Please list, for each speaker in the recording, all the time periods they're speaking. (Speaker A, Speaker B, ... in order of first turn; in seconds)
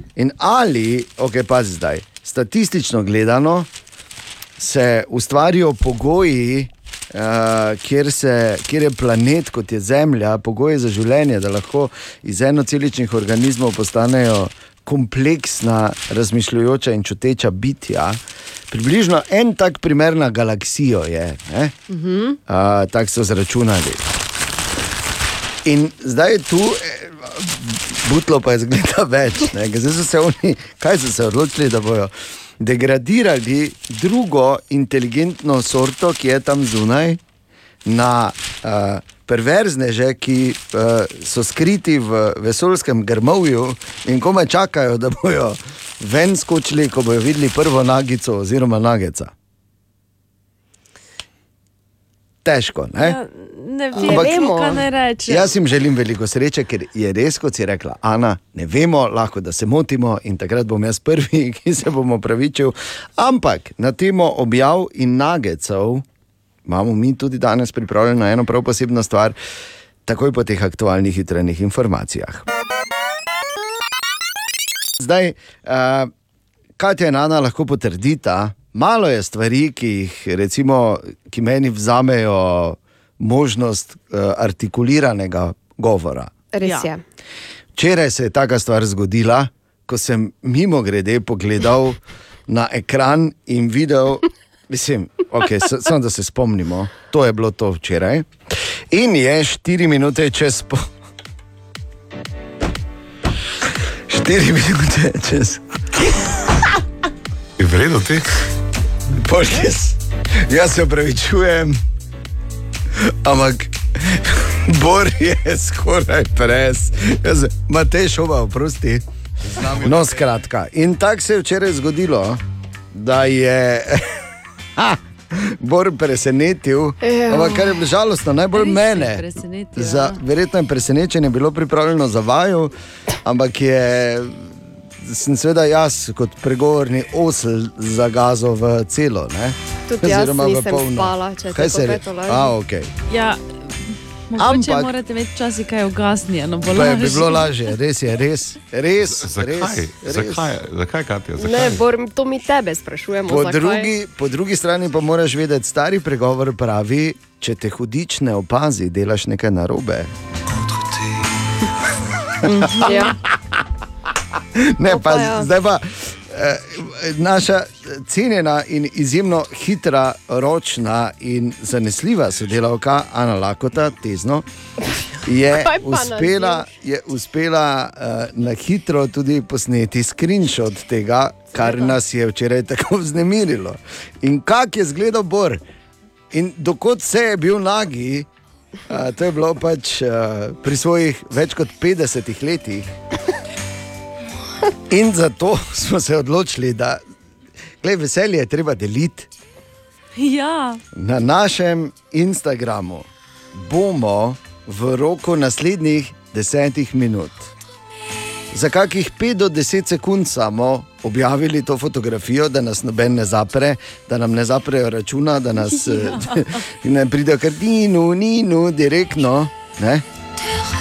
Speaker A: 0.2-3.7, 4.6-18.2, 18.7-21.7, 22.5-24.0, 25.6-37.2, 37.9-49.3, 52.4-53.2, 54.0-66.0, 66.7-69.4, 70.1-72.5, 75.0-76.1, 76.8-86.3, 87.8-98.3, 98.9-100.9, 104.1-106.2, 109.1-111.8, 113.0-122.4, 122.9-124.0, 124.8-132.7, 133.2-142.9, 144.4-144.9, 146.7-150.5, 153.3-160.1, 162.6-163.2, 164.6-174.4, 175.2-185.6, 186.3-188.3, 188.9-193.0, 194.9-197.0, 197.8-199.3, 200.9-207.5, 208.5-220.1
Speaker B: 21.9-22.4, 54.0-54.8, 86.5-87.0, 127.0-127.8, 139.9-142.6, 151.4-153.9, 162.4-163.2, 164.8-165.5, 175.5-176.7
Speaker C: 53.0-55.5, 86.6-86.9, 128.5-130.2, 143.1-143.4, 144.3-147.5, 200.2-200.8, 215.9-216.4
Speaker D: 107.6-108.3, 149.1-151.8